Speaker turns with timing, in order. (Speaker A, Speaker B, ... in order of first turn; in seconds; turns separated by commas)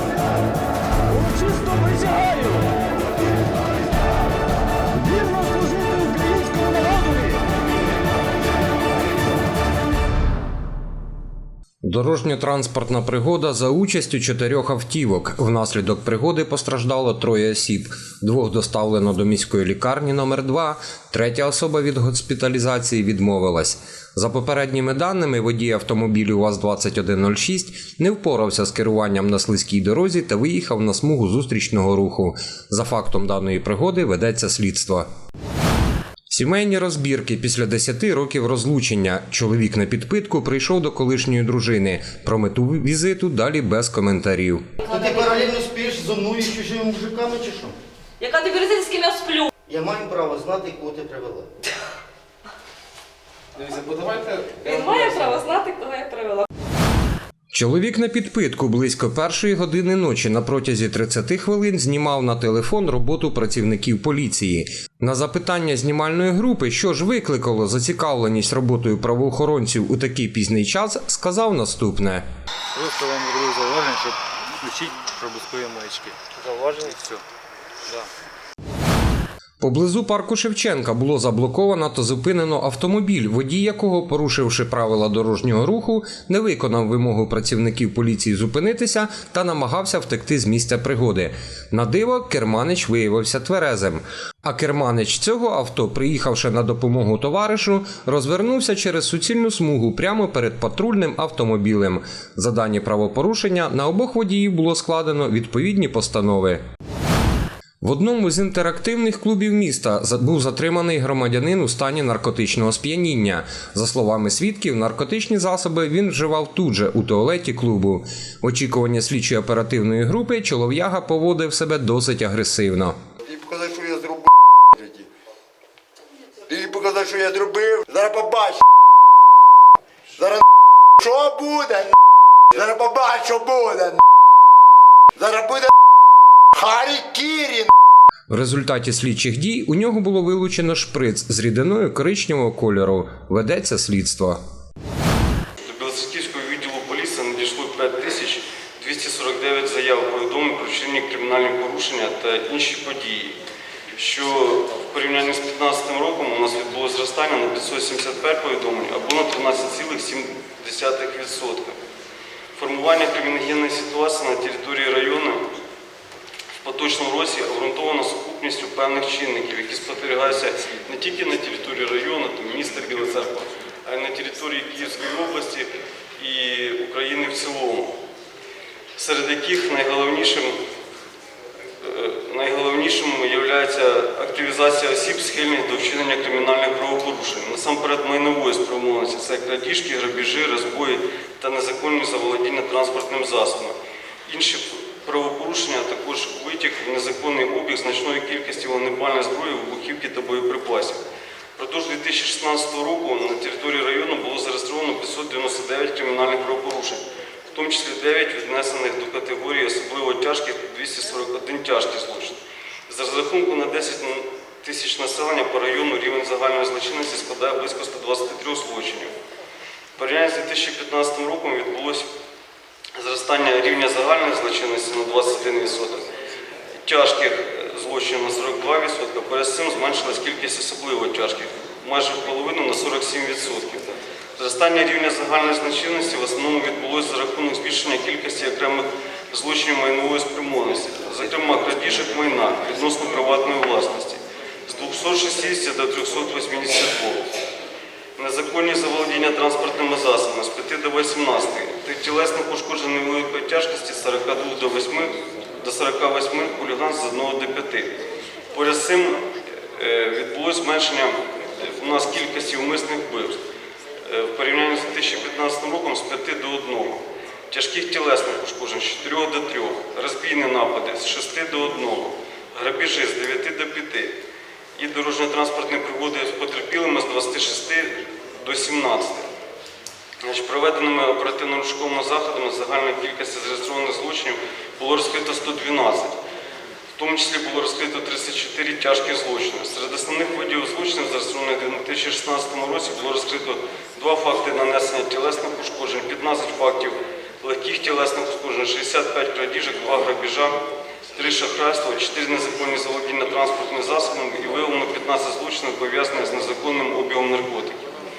Speaker A: 1.2-2.6, Speaker A: 5.0-7.4, Speaker B: 11.8-35.1, Speaker B: 36.3-44.7, Speaker C: 44.8-47.8, Speaker D: 48.2-49.5, Speaker C: 49.7-51.5, Speaker E: 53.6-55.3, Speaker D: 54.8-56.5, Speaker B: 57.5-72.2, Speaker E: 72.8-77.2, Speaker B: 79.6-106.6, Speaker B: 107.8-123.0, Speaker F: 123.2-125.1, Speaker F: 126.5-128.6, Speaker F: 130.2-130.4, Speaker F: 131.0-131.9, Speaker F: 132.5-134.0, Speaker F: 135.2-135.7, Speaker F: 136.5-137.7, Speaker B: 138.3-144.4, Speaker G: 145.6-153.4, Speaker G: 154.0-161.8, Speaker G: 162.6-165.5, Speaker G: 166.6-177.9, Speaker G: 179.0-180.6, Speaker G: 181.8-201.0, Speaker G: 201.6-219.1, Speaker G: 220.0-222.1, Speaker G: 223.0-226.1, Speaker G: 226.8-247.3, Speaker G: 248.2-257.9, Speaker G: 258.5-259.2, Speaker G: 259.7-263.4, Speaker G: 264.0-274.1, Speaker G: 274.8-279.3, Speaker G: 280.2-286.2, Speaker G: 287.0-300.6, Speaker G: 301.1-307.9